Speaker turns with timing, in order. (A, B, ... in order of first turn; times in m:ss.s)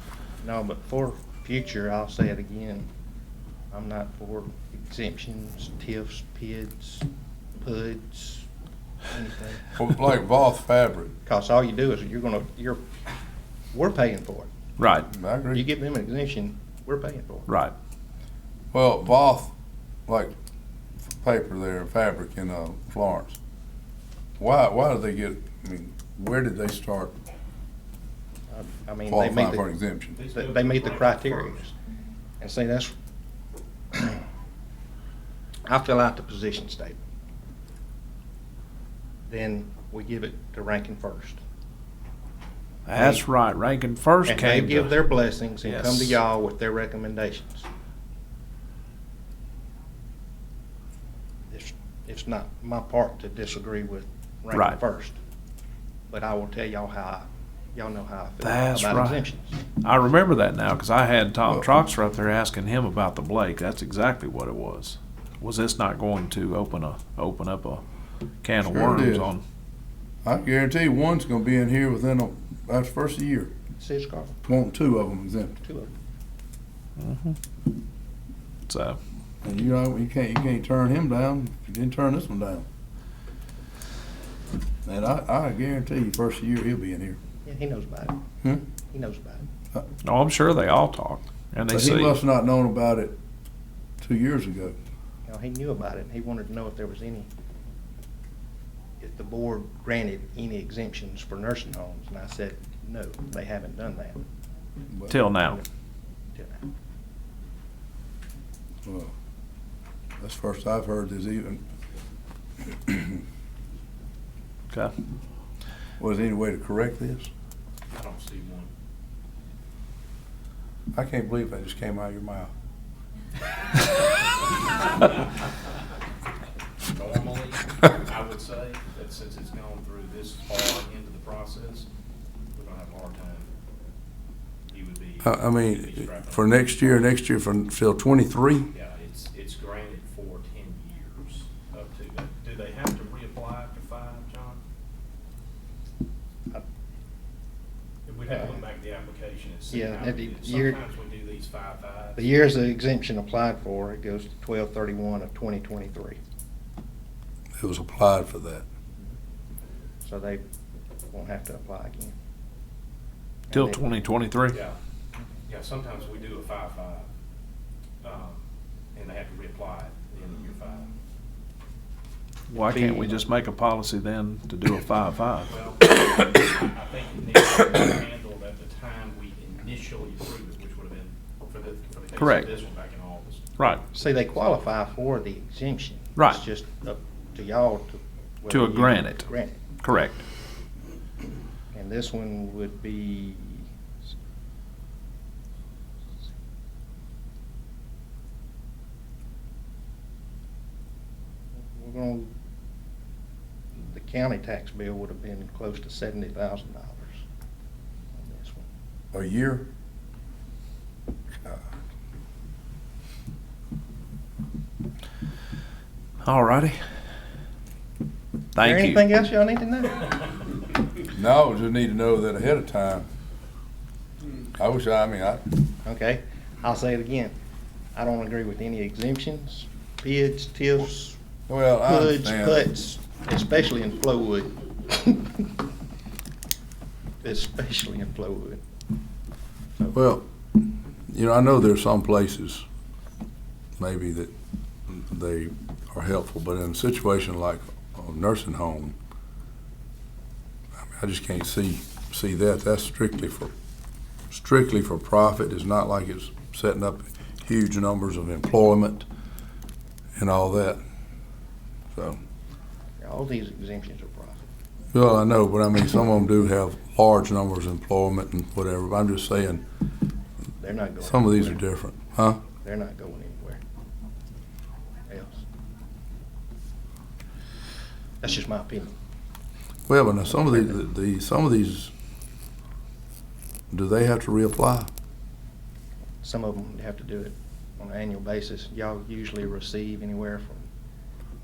0:00.4-0:02.8 A
0:03.7-0:07.1 A
0:07.6-0:08.5 A
0:09.1-0:09.8 A
0:09.7-0:11.1 B
0:11.2-0:12.8 A
0:13.7-0:14.5 A
0:14.8-0:15.1 C
0:15.1-0:15.6 B
0:15.5-0:17.5 A
0:17.5-0:17.7 C
0:18.7-0:19.5 B
0:20.1-0:20.3 B
0:21.1-0:23.4 B
0:24.4-0:27.2 B
0:28.5-0:29.7 A
0:29.1-0:30.2 B
0:30.1-0:31.6 D
0:30.3-0:31.7 A
0:32.4-0:32.9 A
0:33.9-0:34.2 A
0:35.6-0:37.0 A
0:39.3-0:41.4 A
0:42.8-0:44.9 C
0:42.9-0:43.2 A
0:44.2-0:47.7 A
0:45.6-0:46.2 C
0:51.5-0:55.2 A
0:54.5-0:54.8 C
0:56.1-0:59.6 A
0:58.4-0:59.2 C
0:59.8-1:07.8 C
1:08.4-1:09.4 C
1:08.6-1:09.3 B
1:10.2-1:13.5 B
1:13.8-1:14.4 A
1:14.4-1:15.6 B
1:15.6-1:15.9 A
1:17.0-1:17.4 C
1:18.7-1:19.0 C
1:19.4-1:22.6 B
1:24.8-1:27.2 B
1:27.4-1:28.2 A
1:28.8-1:29.5 A
1:30.0-1:32.2 C
1:31.7-1:33.2 B
1:34.0-1:34.8 B
1:35.2-1:37.3 A
1:39.0-1:44.2 A
1:45.1-1:45.6 C
1:46.3-1:46.6 A
1:48.8-1:49.1 B
1:50.2-1:51.6 B
1:52.6-1:53.2 B
1:56.0-1:57.3 B
1:57.9-1:58.7 D
2:00.9-2:02.5 B
2:06.9-2:11.9 D
2:12.5-2:13.5 D
2:14.7-2:16.8 D
2:15.2-2:18.7 B
2:18.7-2:24.6 D
2:28.0-2:32.4 D
2:28.4-2:28.6 A
2:29.7-2:30.8 A
2:32.2-2:36.2 A
2:37.6-2:38.6 B
2:40.0-2:40.4 A
2:41.1-2:42.1 A
2:43.5-2:43.9 A
2:43.5-2:44.6 C
2:44.5-2:44.8 D
2:45.5-2:47.0 D
2:48.0-2:50.9 D
2:52.5-2:55.5 C
2:52.7-2:53.2 A
2:55.5-3:04.2 D
3:02.2-3:02.5 C
3:03.9-3:09.6 A
3:06.2-3:06.4 C
3:08.5-3:09.2 C
3:09.8-3:10.2 C
3:11.7-3:13.7 A
3:21.6-3:22.3 A
3:23.7-3:27.2 A
3:28.1-3:28.6 A
3:29.1-3:29.7 B
3:36.2-3:36.8 C
3:38.5-3:39.0 C
3:38.6-3:40.3 A
3:41.1-3:43.1 B
3:44.6-3:45.6 B
3:45.8-3:47.3 A
3:47.9-3:51.2 A
3:51.5-3:52.6 B
3:51.8-3:55.5 A
3:57.2-3:58.6 A
3:59.9-4:00.2 B
4:01.1-4:02.6 B
4:03.8-4:04.3 B
4:04.9-4:09.0 B
4:10.9-4:13.5 B
4:14.3-4:19.1 B
4:20.2-4:20.8 B
4:21.9-4:22.2 B
4:23.0-4:24.5 A
4:24.9-4:29.6 B
4:30.6-4:31.6 A
4:31.0-4:32.4 B
4:32.5-4:33.6 A
4:35.0-4:35.4 A
4:38.2-4:38.9 A
4:39.9-4:41.9 B
4:43.7-4:44.9 B
4:46.2-4:50.7 A